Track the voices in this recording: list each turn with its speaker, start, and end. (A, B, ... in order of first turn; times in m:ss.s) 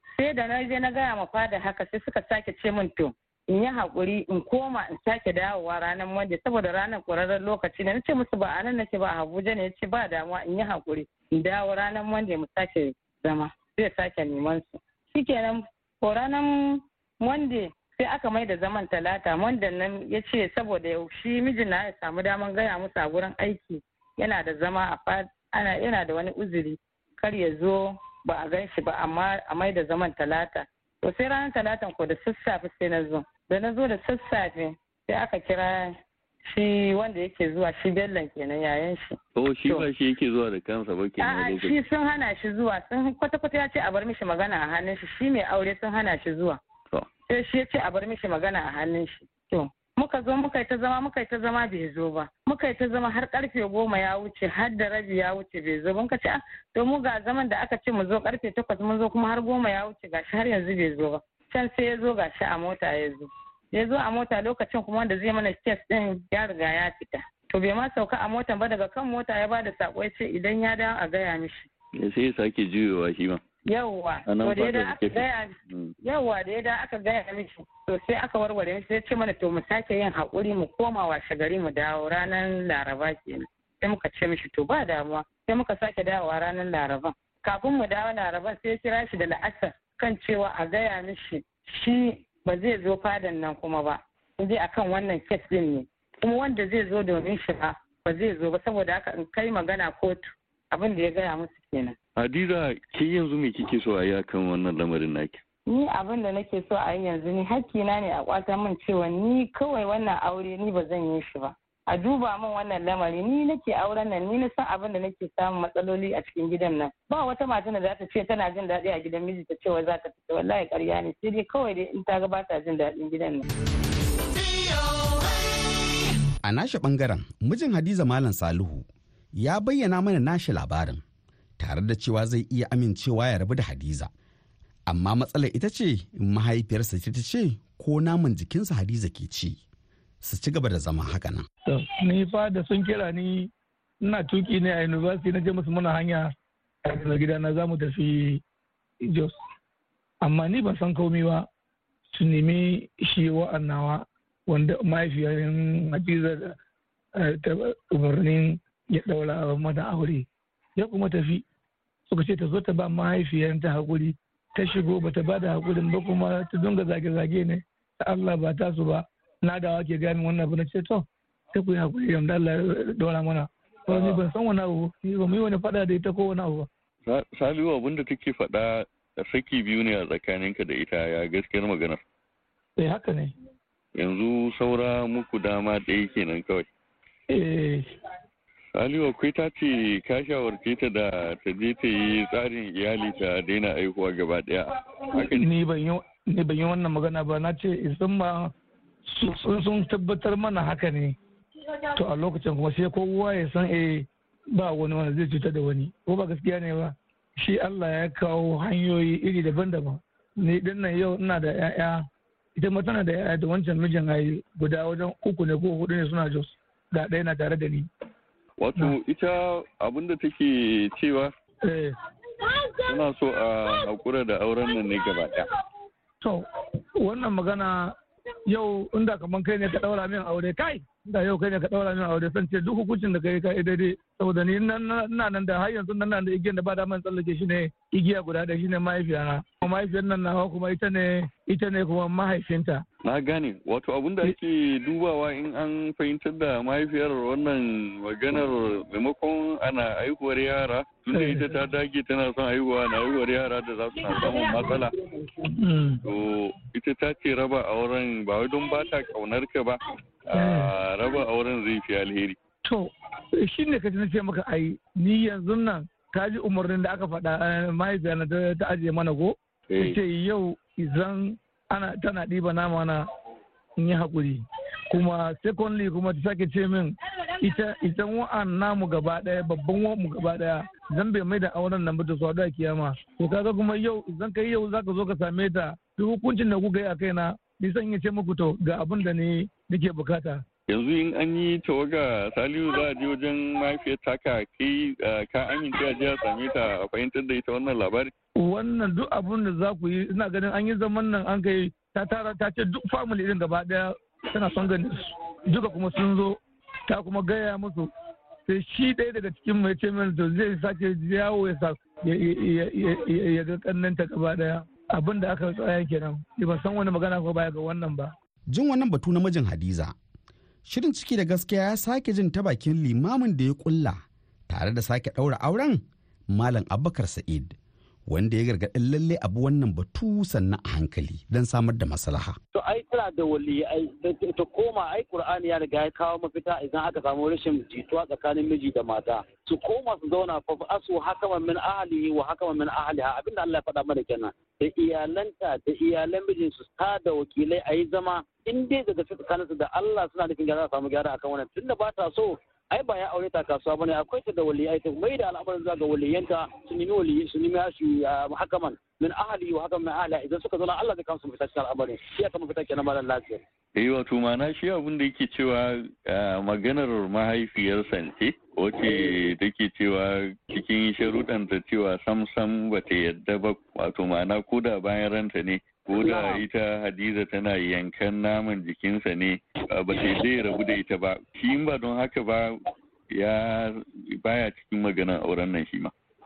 0:00.2-0:39.9 A
0:39.4-0:41.7 B
0:41.2-0:46.6 A
0:47.3-1:11.7 A
1:12.0-1:13.4 B
1:13.7-1:42.0 A
1:14.3-1:15.9 B
1:42.2-1:45.4 B
1:45.7-2:03.4 A
2:06.4-2:11.0 C
2:11.6-2:14.1 C
2:14.9-2:19.6 C
2:20.2-2:21.5 C
2:21.7-2:23.5 D
2:24.0-2:26.3 D
2:26.8-2:28.4 D
2:29.0-2:29.3 D
2:30.2-2:31.5 D
2:32.1-2:36.6 D
2:37.2-2:40.3 D
2:40.8-2:41.4 D
2:42.1-2:56.7 D
2:57.1-3:02.0 B
3:02.8-3:03.3 D
3:04.0-3:06.6 B
3:07.3-3:07.9 D
3:08.8-3:15.5 B
3:15.2-3:18.5 D
3:19.1-3:21.2 D
3:21.9-3:32.1 D
3:32.6-3:37.9 D
3:38.6-3:41.3 B
3:41.6-3:42.0 D
3:42.9-3:45.4 B
3:47.0-3:47.9 D
3:48.5-4:02.8 D
4:03.1-4:14.9 B
4:11.1-4:11.6 D
4:15.5-4:16.0 D
4:16.1-4:19.8 B
4:20.4-4:20.7 D
4:20.4-4:22.4 B
4:22.6-4:33.0 D
4:29.7-4:30.0 B
4:33.8-4:50.4 D
4:50.7-4:58.1 B
4:58.4-5:07.9 D
5:08.5-5:18.1 D
5:18.5-5:19.9 C
5:20.7-5:27.6 C
5:28.1-5:32.4 C
5:32.6-6:03.4 E
6:03.8-6:22.5 B
6:08.8-6:09.2 E
6:16.0-6:16.4 E
6:23.1-6:25.9 B